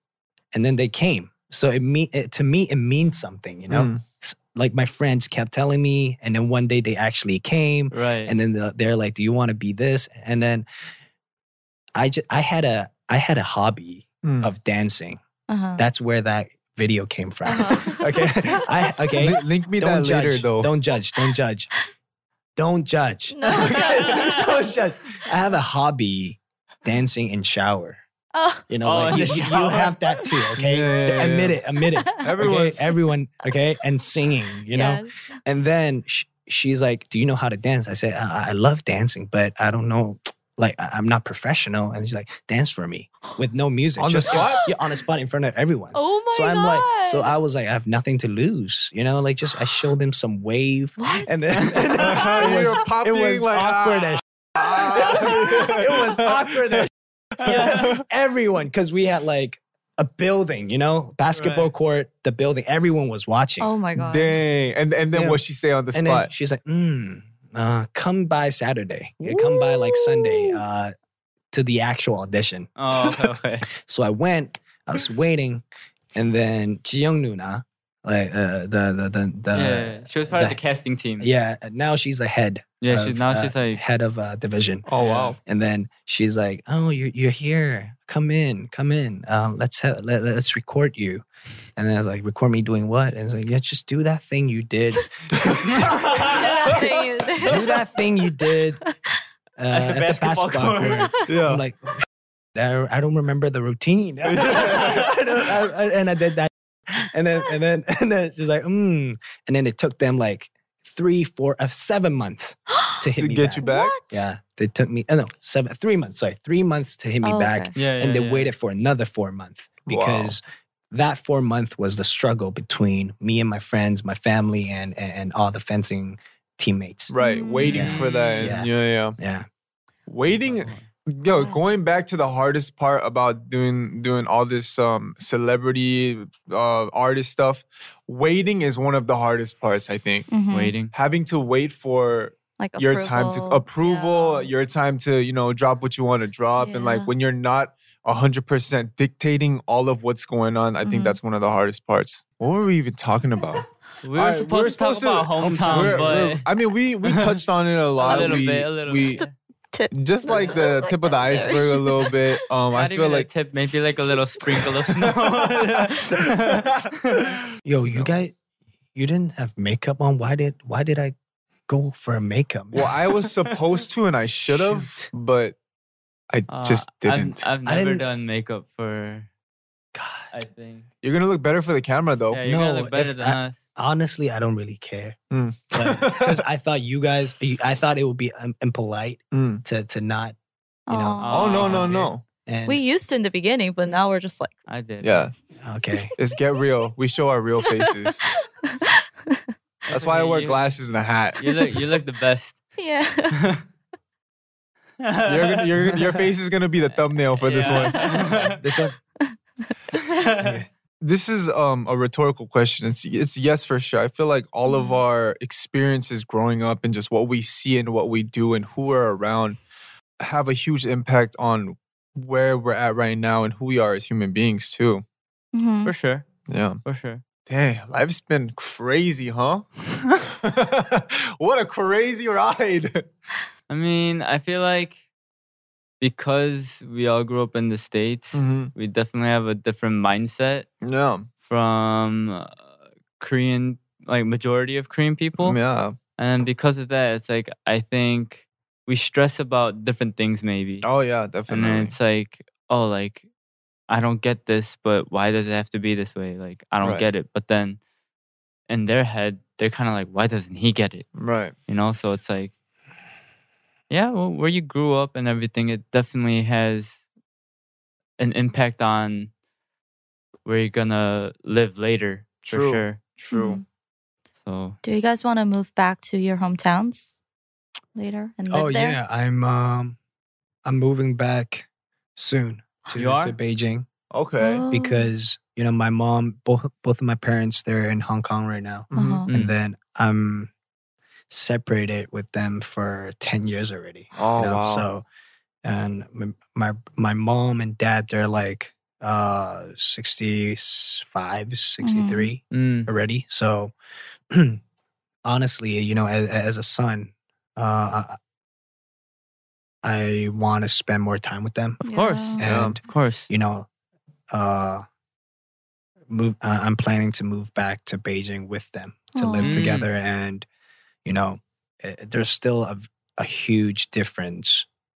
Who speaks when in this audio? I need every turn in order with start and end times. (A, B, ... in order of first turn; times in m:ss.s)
0:00.5-0:10.7 A
0:03.7-0:04.0 B
0:07.9-0:08.3 C
0:12.0-0:15.2 A
0:14.2-0:14.5 B
0:15.5-0:15.8 D
0:15.8-0:21.7 A
0:17.5-0:18.3 D
0:19.2-0:20.7 B
0:22.6-0:28.0 A
0:23.3-0:24.7 D
0:28.3-0:29.4 D
0:28.7-1:03.7 A
0:28.8-0:30.0 C
0:30.6-0:31.6 B
0:32.2-0:33.0 B
0:34.7-0:35.3 D
0:44.0-0:44.7 B
0:44.3-0:44.7 D
0:45.9-0:47.4 D
0:51.0-0:52.6 D
0:52.0-0:56.7 B
1:01.3-1:01.7 C
1:03.6-1:04.4 D
1:04.0-1:06.3 B
1:05.1-1:05.4 A
1:05.9-1:10.9 A
1:09.4-1:10.6 D
1:11.5-1:12.7 A
1:12.8-1:13.7 C
1:13.8-1:20.6 A
1:19.5-1:21.3 C
1:21.2-1:24.9 A
1:22.8-1:23.8 C
1:24.9-1:25.4 B
1:25.0-1:25.3 C
1:25.4-1:31.2 A
1:31.8-1:36.8 A
1:36.2-1:37.7 D
1:37.4-1:38.8 A
1:39.6-2:07.1 A
1:39.7-1:41.1 C
1:41.3-1:41.6 B
1:44.2-1:45.0 B
1:53.2-1:54.0 B
1:53.6-1:54.2 D
1:57.2-1:57.7 D
1:57.8-1:58.5 C
1:59.9-2:00.4 B
2:07.1-2:09.2 B
2:07.2-2:08.0 D
2:07.6-2:08.5 C
2:07.6-2:09.5 A
2:10.1-2:20.3 B
2:10.3-2:10.8 C
2:11.3-2:11.6 D
2:20.3-2:20.7 D
2:20.5-2:20.9 C
2:20.9-2:33.6 B
2:22.6-2:24.5 D
2:26.6-2:27.1 D
2:30.8-2:31.2 D
2:34.0-2:36.5 C
2:34.2-2:39.2 B
2:35.5-2:36.3 A
2:38.0-2:39.3 C
2:38.0-2:42.2 D
2:39.9-2:43.3 B
2:42.7-2:47.2 C
2:46.5-2:46.9 B
2:47.6-2:48.3 A
2:49.0-2:51.2 A
2:51.7-2:53.0 A
2:52.7-2:55.6 B
2:54.5-2:55.1 A
2:56.3-2:57.5 B
2:56.5-2:59.3 C
2:57.6-2:58.1 A
2:59.9-3:00.3 A
3:00.3-3:00.9 C
3:01.0-3:02.4 B
3:02.3-3:03.6 C
3:02.4-3:05.2 A
3:05.3-3:06.4 B
3:05.7-3:10.4 A
3:09.3-3:09.6 B
3:10.9-3:11.7 D
3:10.9-3:12.8 A
3:11.2-3:12.1 C
3:11.3-3:12.2 B
3:12.7-3:14.6 D
3:14.7-3:15.3 C
3:15.0-3:15.3 B
3:15.6-3:16.1 A
3:16.2-3:18.2 B
3:18.7-3:19.4 D
3:19.9-3:20.8 C
3:19.9-3:21.5 B
3:21.4-3:22.6 C
3:22.8-3:23.4 D
3:25.0-3:25.6 C
3:25.3-3:28.2 B
3:27.4-3:28.6 C
3:27.7-3:28.3 D
3:28.3-3:29.0 A
3:30.0-3:30.6 C
3:30.4-3:30.7 A
3:31.0-3:39.6 B
3:34.7-3:35.0 D
3:40.2-3:45.0 B
3:45.5-3:45.9 D
3:45.8-3:46.2 C
3:46.5-3:46.8 B
3:46.8-3:47.2 C
3:47.5-3:49.7 B
3:50.2-3:53.0 B
3:53.7-3:55.0 C
3:56.0-4:00.7 C
3:58.3-3:58.7 B
4:00.8-4:01.3 B
4:01.4-4:02.6 C
4:03.2-4:05.6 C
4:05.4-4:06.0 B
4:06.2-4:10.9 C
4:10.8-4:12.0 B
4:11.5-4:13.2 C
4:13.9-4:17.8 C
4:16.8-4:17.1 B
4:18.7-4:21.1 C
4:21.2-4:21.5 B
4:21.7-4:22.5 C
4:23.9-4:27.0 C
4:28.2-4:29.3 C
4:30.4-4:33.0 C
4:32.5-4:33.6 B
4:33.3-4:33.6 D
4:34.4-4:34.8 C
4:34.8-4:37.2 D
4:38.0-4:39.0 D
4:38.5-4:40.0 A
4:40.6-4:43.9 A
4:42.9-4:43.4 C
4:44.1-4:44.6 B
4:44.4-4:45.1 D
4:44.7-4:50.5 A
4:48.9-4:49.2 B
4:48.9-4:49.3 D
4:49.3-4:49.6 C
4:51.3-4:55.0 A
4:54.2-4:54.9 B
4:55.6-5:03.7 A
5:01.8-5:02.3 D
5:02.5-5:02.9 C
5:04.3-5:04.6 A
5:05.2-5:08.2 A
5:09.8-5:11.8 A
5:11.8-5:12.4 D
5:11.8-5:13.3 C
5:12.4-5:13.7 A
5:12.4-5:12.8 B
5:14.3-5:14.8 A
5:16.1-5:20.5 A
5:19.2-5:19.6 D
5:19.4-5:19.9 C
5:21.0-5:24.7 A